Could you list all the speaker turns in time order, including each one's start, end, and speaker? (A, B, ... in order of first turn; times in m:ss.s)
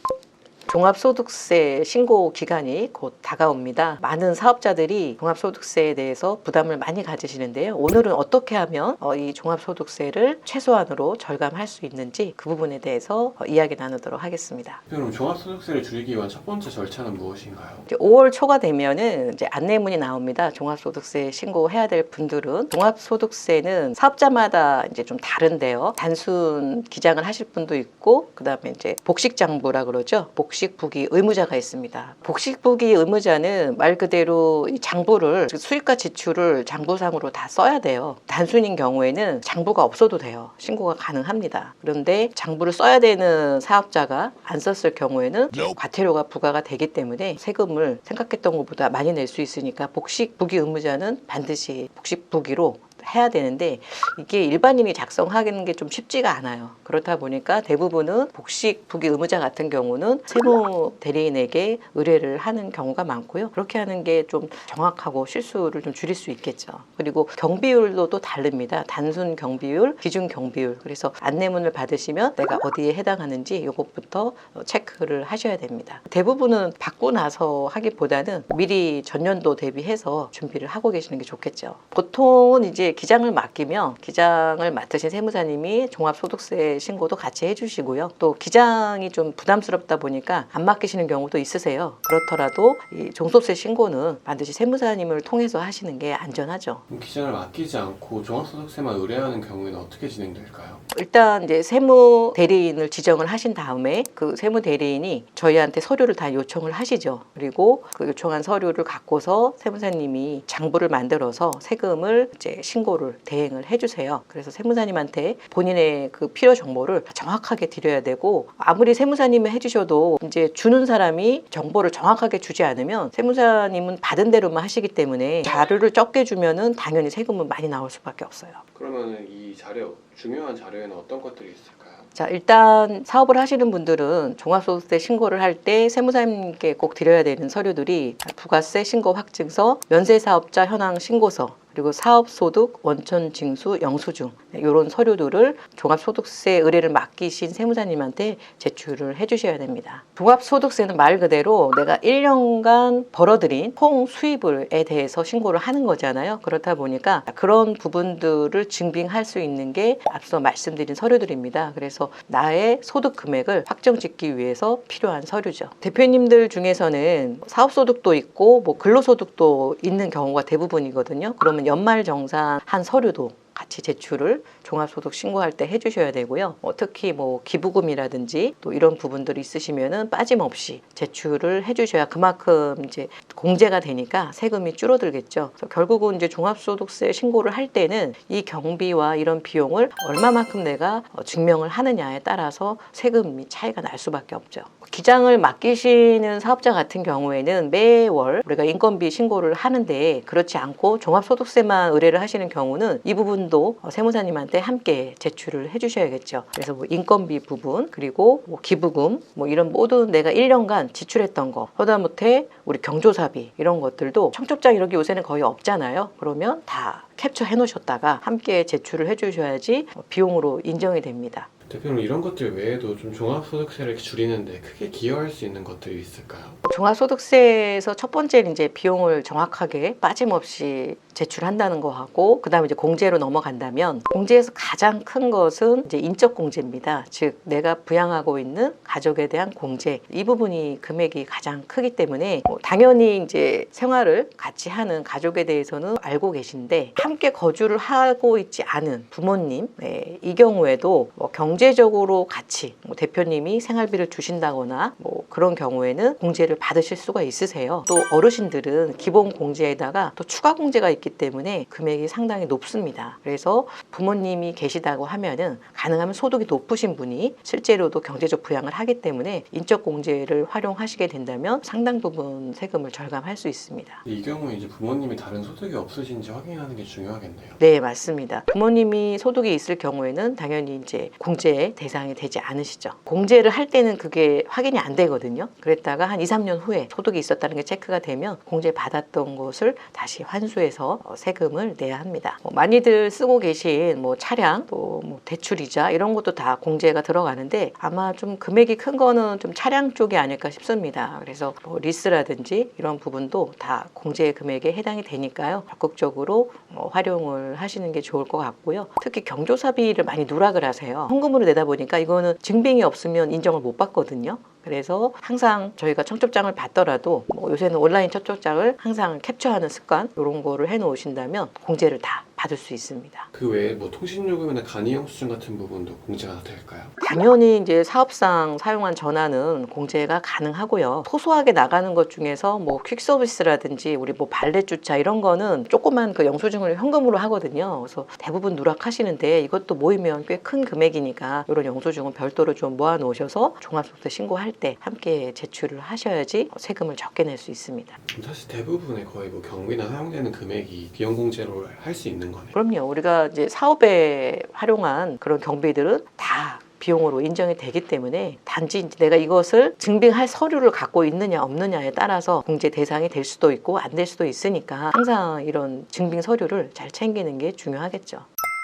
0:00.7-0:14.8 A
0:14.9-0:17.8 B
0:17.9-1:36.8 A
1:36.9-1:40.8 B
1:40.9-2:08.6 A
2:08.7-2:12.1 B
2:12.1-3:41.5 A
3:41.7-3:46.6 B
3:46.6-4:34.0 A
4:34.0-4:37.6 B
4:37.6-5:23.3 A
5:23.3-5:26.9 B
5:27.0-5:48.0 A
5:48.0-5:52.5 B
5:52.5-6:08.3 A